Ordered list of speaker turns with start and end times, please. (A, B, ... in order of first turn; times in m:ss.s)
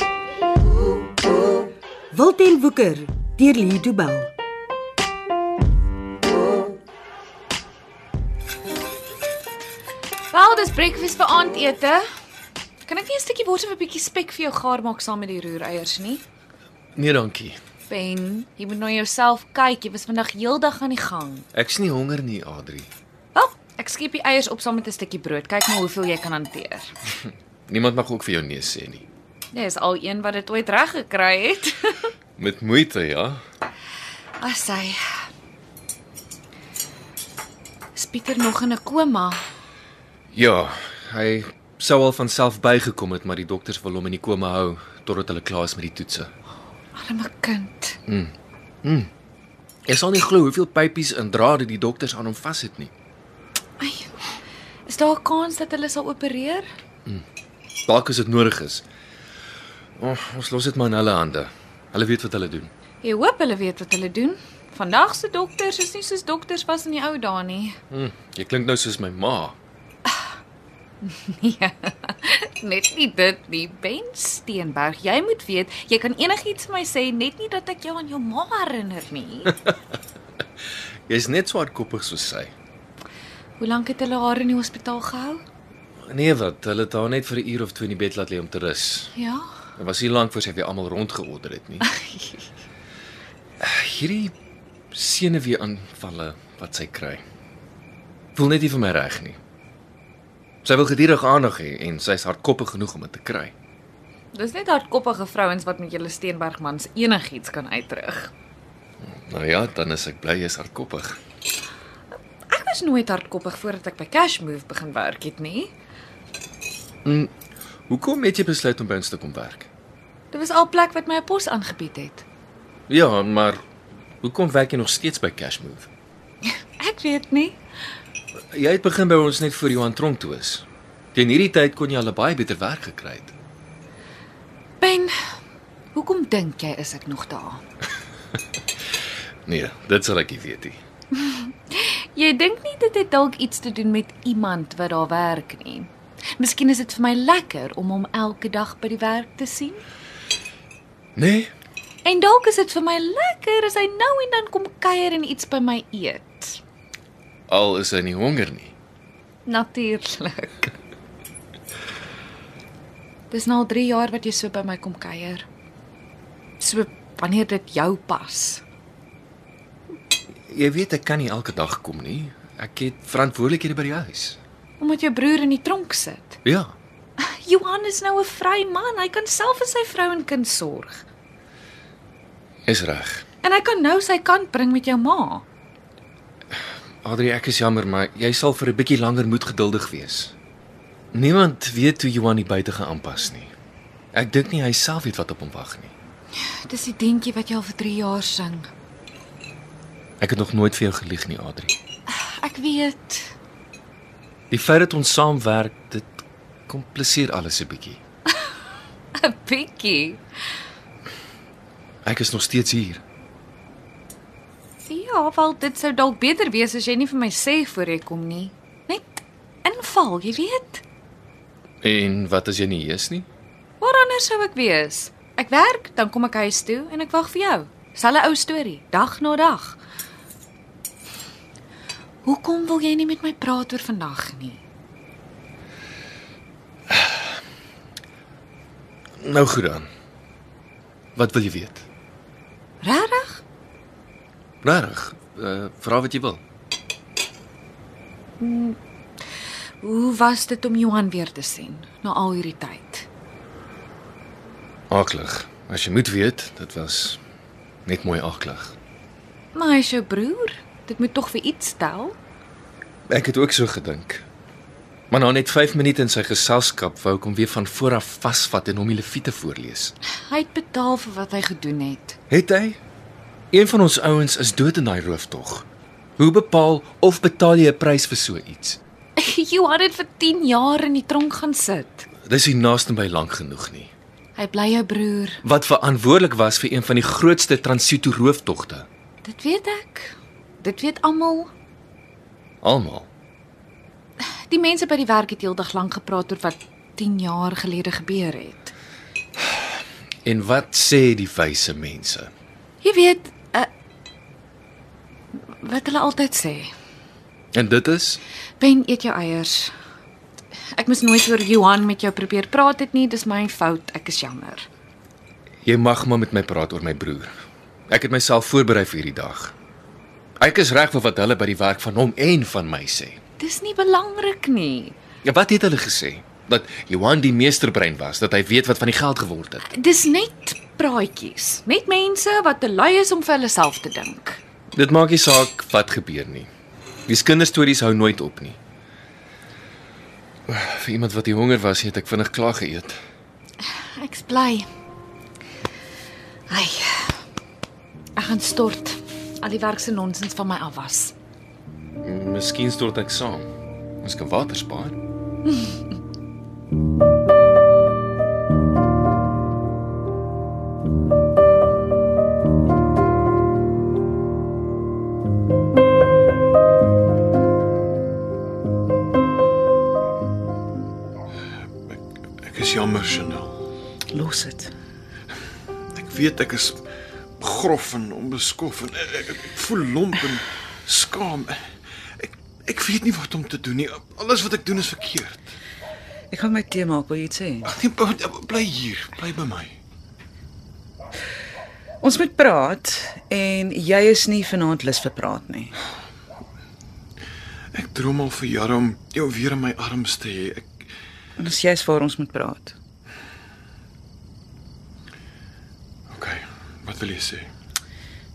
0:02.1-0:04.3 A
0:10.3-0:12.0 B
0:12.8-0:16.2 B
0:17.0-0:17.6 C
0:17.9-0:21.5 B
0:21.5-0:22.9 C
0:23.4-0:26.9 B
0:27.7-0:29.0 C
0:29.5-0:32.0 B
0:32.4-0:33.4 C
0:34.4-0:35.0 B
0:38.0-0:39.4 B
0:40.3-0:46.3 C
0:47.0-0:48.0 B
0:48.1-0:49.1 C
0:49.9-0:52.9 C
0:53.8-0:54.2 B
0:54.9-0:56.7 B
0:57.8-0:58.8 C
1:00.0-1:02.7 C
1:03.0-1:07.8 B
1:07.9-1:09.6 C
1:11.0-1:19.6 B
1:21.1-1:22.5 C
1:23.6-1:25.4 B
1:26.1-1:29.1 C
1:29.1-1:29.4 B
1:29.8-1:31.9 C
1:31.8-1:32.3 B
1:33.6-1:34.3 C
1:34.9-1:37.2 C
1:38.3-1:39.4 C
1:40.6-1:43.5 C
1:44.3-1:48.3 B
1:49.0-1:51.2 C
1:52.5-1:55.7 B
1:57.0-1:57.3 C
1:57.9-1:59.7 C
2:00.3-2:02.2 B
2:02.9-2:03.6 C
2:04.2-2:05.9 C
2:06.8-2:07.6 B
2:08.5-2:13.3 C
2:14.8-2:15.1 B
2:15.9-2:17.6 B
2:19.5-2:20.8 C
2:21.2-2:29.8 B
2:31.2-2:31.5 C
2:32.0-2:36.6 B
2:37.5-2:38.8 C
2:39.5-2:40.7 B
2:43.3-2:45.5 B
2:46.6-2:48.6 B
2:50.5-2:54.4 C
2:54.8-2:56.4 B
2:56.4-2:56.7 C
2:57.2-3:01.1 B
3:02.7-3:03.2 C
3:03.4-3:05.4 B
3:07.0-3:10.3 C
3:11.1-3:13.5 C
3:14.1-3:15.9 C
3:16.5-3:18.7 B
3:20.2-3:21.8 C
3:22.1-3:23.3 B
3:24.5-3:28.0 C
3:29.2-3:30.2 B
3:32.0-3:33.0 C
3:34.8-3:40.8 B
3:41.8-3:43.3 C
3:43.8-3:49.8 B
3:52.2-3:54.6 B
3:59.2-3:59.9 C
4:01.2-4:01.9 C
4:02.8-4:03.4 B
4:04.6-4:06.4 C
4:08.4-4:08.8 B
4:09.8-4:13.1 B
4:14.9-4:17.2 C
4:17.8-4:18.8 C
4:19.5-4:22.2 B
4:23.1-4:24.2 C
4:25.1-4:29.9 C
4:30.3-4:32.2 B
4:32.3-4:32.8 C
4:33.5-4:35.7 C
4:36.2-4:38.8 C
4:39.2-4:42.1 B
4:42.2-4:43.9 C
4:44.4-4:45.4 B
4:45.4-4:48.9 C
4:49.2-4:51.5 B
4:52.6-4:53.1 C
4:54.5-4:58.7 B
5:00.2-5:02.3 C
5:02.8-5:03.7 B
5:05.6-5:06.7 B
5:07.5-5:08.2 C
5:08.6-5:09.7 B
5:10.8-5:14.7 B
5:15.6-5:17.3 C
5:17.9-5:19.5 C
5:20.4-5:23.2 C
5:23.4-5:25.0 B
5:25.2-5:29.6 C
5:29.7-5:34.4 B
5:34.7-5:36.5 C
5:37.1-5:38.6 C
5:40.5-5:43.0 C
5:43.8-5:44.7 B
5:46.5-5:47.2 B
5:48.2-5:51.1 B
5:52.0-5:53.5 C
5:54.0-5:55.0 C
6:11.9-6:13.6 D
6:14.1-6:14.7 E
6:15.9-6:16.8 D
6:17.4-6:21.7 D
6:22.2-6:25.5 D
6:26.3-6:27.6 E
6:27.6-6:29.8 D
6:32.0-6:35.6 E
6:37.7-6:40.7 D
6:41.4-6:42.7 E
6:46.1-6:47.5 D